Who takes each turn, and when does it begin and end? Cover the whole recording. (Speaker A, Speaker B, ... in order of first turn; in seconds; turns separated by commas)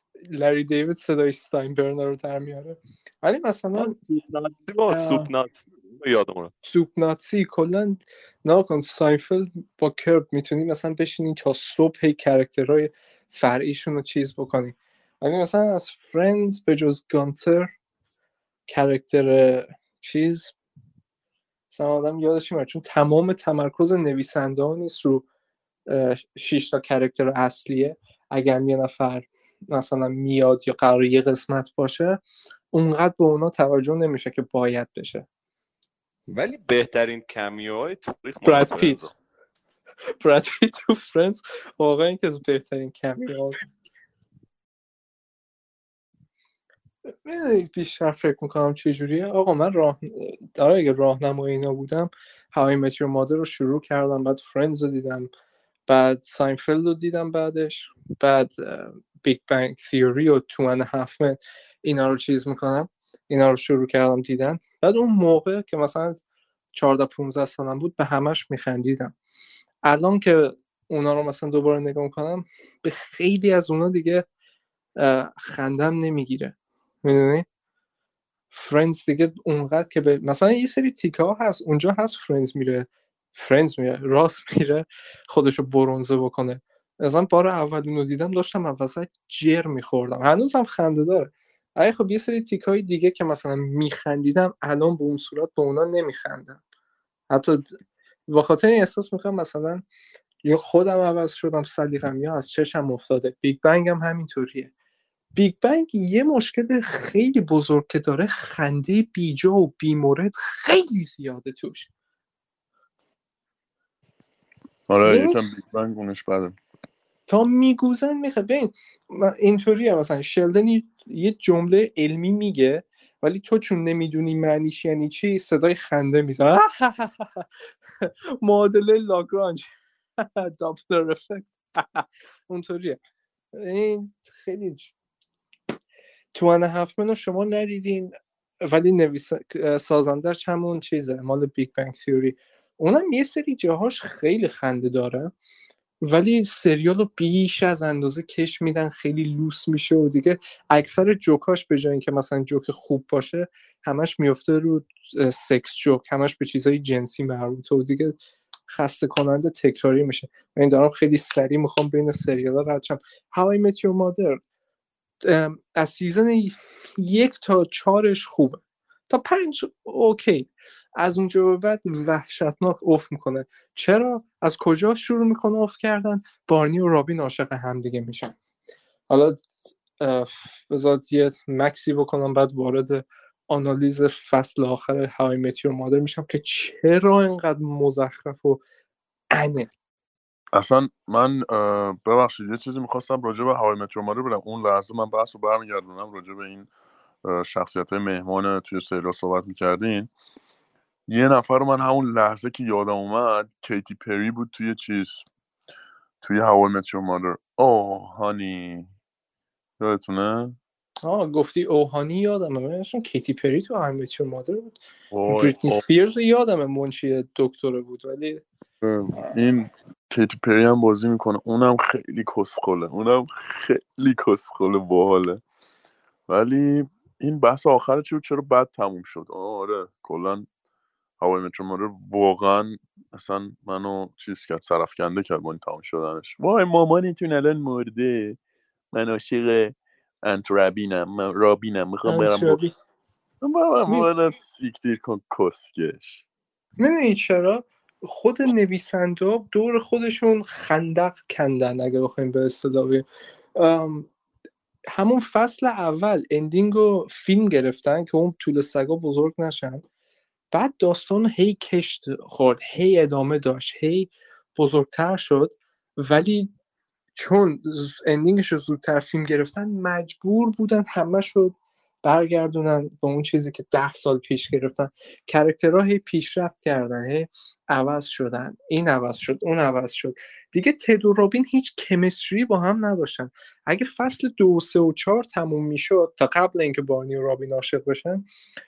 Speaker A: 0.2-4.0, Speaker B: 3.8-6.5, Speaker A: 4.9-5.3, Speaker A: 6.6-17.7, Speaker A: 18.7-20.5, Speaker A: 21.7-25.2, Speaker A: 25.9-35.2, Speaker B: 36.3-39.1, Speaker A: 38.4-39.1, Speaker A: 40.2-43.6, Speaker A: 47.2-55.3, Speaker A: 55.9-66.2, Speaker A: 66.7-69.1, Speaker A: 69.8-74.2, Speaker A: 75.0-77.5, Speaker A: 78.5-96.6, Speaker A: 97.3-97.8, Speaker A: 98.3-99.8, Speaker A: 100.4-104.7, Speaker A: 105.3-111.9, Speaker C: 114.9-116.6, Speaker A: 115.0-115.5, Speaker A: 117.3-127.5, Speaker A: 128.0-133.0, Speaker A: 133.5-134.9, Speaker A: 136.3-138.1, Speaker A: 138.6-145.3, Speaker A: 146.0-164.4, Speaker A: 165.2-178.3, Speaker A: 179.1-188.6, Speaker A: 189.3-189.7, Speaker C: 190.5-196.7, Speaker C: 197.2-200.1, Speaker C: 201.1-205.2, Speaker C: 206.2-208.9, Speaker C: 209.8-210.6, Speaker A: 211.0-218.4, Speaker C: 215.1-215.8, Speaker C: 218.8-225.4, Speaker C: 226.3-230.5, Speaker C: 231.2-238.4, Speaker C: 238.9-242.6, Speaker A: 242.1-242.7, Speaker C: 243.4-246.2, Speaker A: 246.8-253.0, Speaker A: 253.6-254.1, Speaker A: 254.9-259.8, Speaker A: 260.5-266.5, Speaker A: 267.1-288.2